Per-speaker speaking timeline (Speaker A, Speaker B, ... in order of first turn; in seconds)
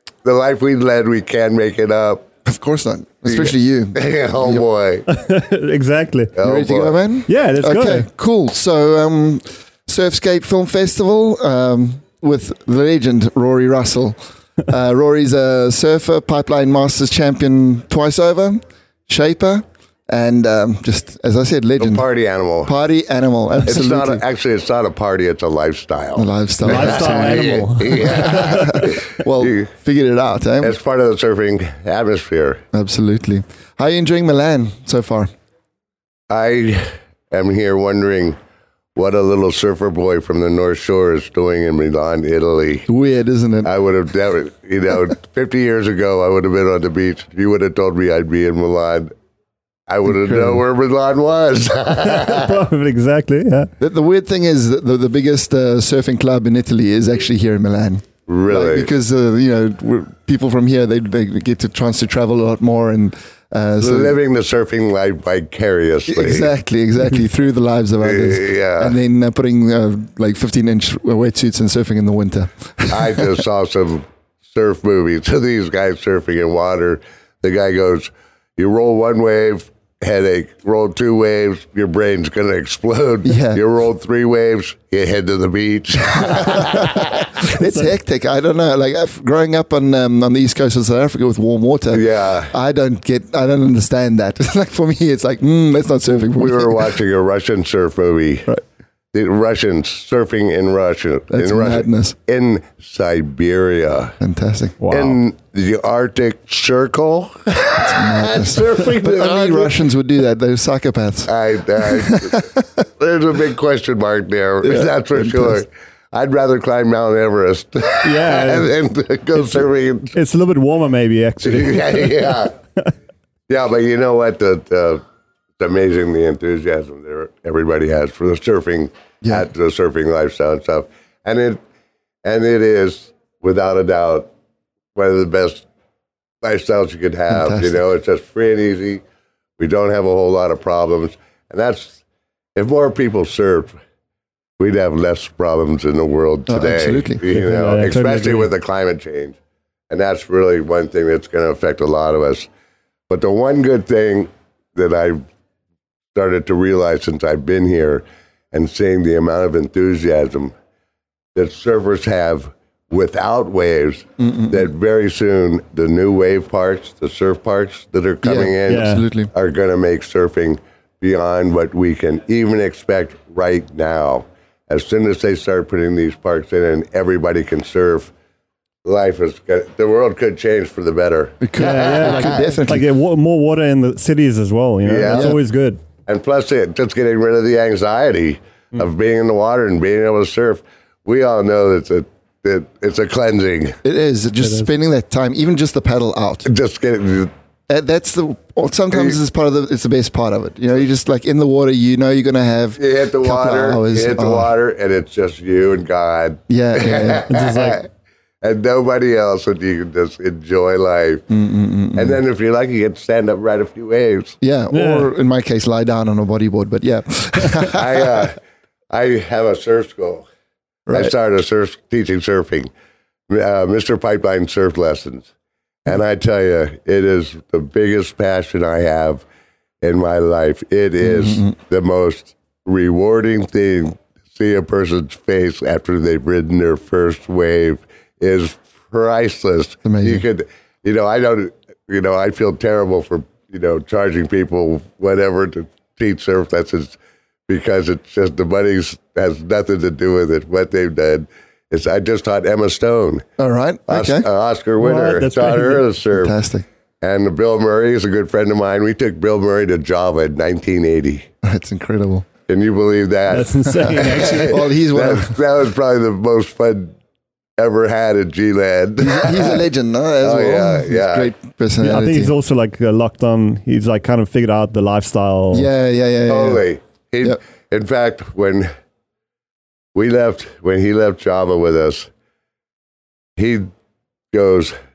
Speaker A: 0.2-2.3, 3.2-5.1, 6.3-7.0, 21.8-22.7, 23.7-29.7, 30.6-32.6, 36.3-38.4, 39.0-42.9, 43.6-49.1, 49.9-52.6, 58.3-58.9, 63.8-66.5, 68.0-69.0, 72.9-87.2, 91.9-92.5, 96.4-98.5, 99.1-104.2, 104.9-109.8, 111.3-112.4, 113.0-120.2, 121.4-122.5, 123.5-125.0, 125.6-131.6, 132.2-134.3, 134.9-135.7, 136.4-139.0, 139.6-142.0, 142.6-143.7, 144.6-149.4, 149.9-152.5, 153.1-155.2, 156.1-160.5, 161.3-178.1, 178.8-182.6, 184.8-185.4, 186.1-193.8, 196.4-197.3, 198.9-199.2, 202.8-207.9, 208.4-211.2, 211.9-214.4, 217.7-218.3, 218.9-220.3, 220.9-222.7, 223.3-225.3, 225.8-229.2, 229.8-247.0, 247.5-253.2, 253.9-256.3, 257.0-261.3, 262.5-266.9, 267.6-269.7, 270.2-271.3, 276.3-278.7, 279.9-282.1, 283.4-283.7, 284.3-284.7
Speaker B: 2.5-4.7, 6.4-22.1, 22.6-24.2, 26.1-30.8, 32.7-35.3, 42.9-43.7, 50.0-50.6, 53.8-64.2, 66.1-73.4, 83.2-83.6, 87.0-97.0, 101.3-102.2, 104.2-104.8, 107.8-112.7, 114.6-115.6, 129.2-129.5, 137.3-137.8, 146.5-147.2, 164.2-164.6, 168.2-169.3, 181.4-182.9, 185.1-185.4, 193.8-196.5, 197.7-204.6, 206.5-207.3, 211.3-212.2, 214.4-218.2, 220.9-221.1, 231.0-231.5, 239.8-240.3, 253.4-254.3, 256.1-256.7, 261.4-262.3, 264.3-265.4, 269.0-272.4, 275.5-276.7
Speaker C: 5.1-6.3, 7.3-8.1, 26.6-28.9, 52.0-53.7, 87.6-87.9, 104.8-105.2, 118.0-118.7, 119.3-122.9, 147.3-148.5, 168.6-169.1, 181.6-185.8, 194.4-194.7, 207.3-207.8, 214.7-215.1, 254.8-255.9, 263.3-264.8, 271.8-275.7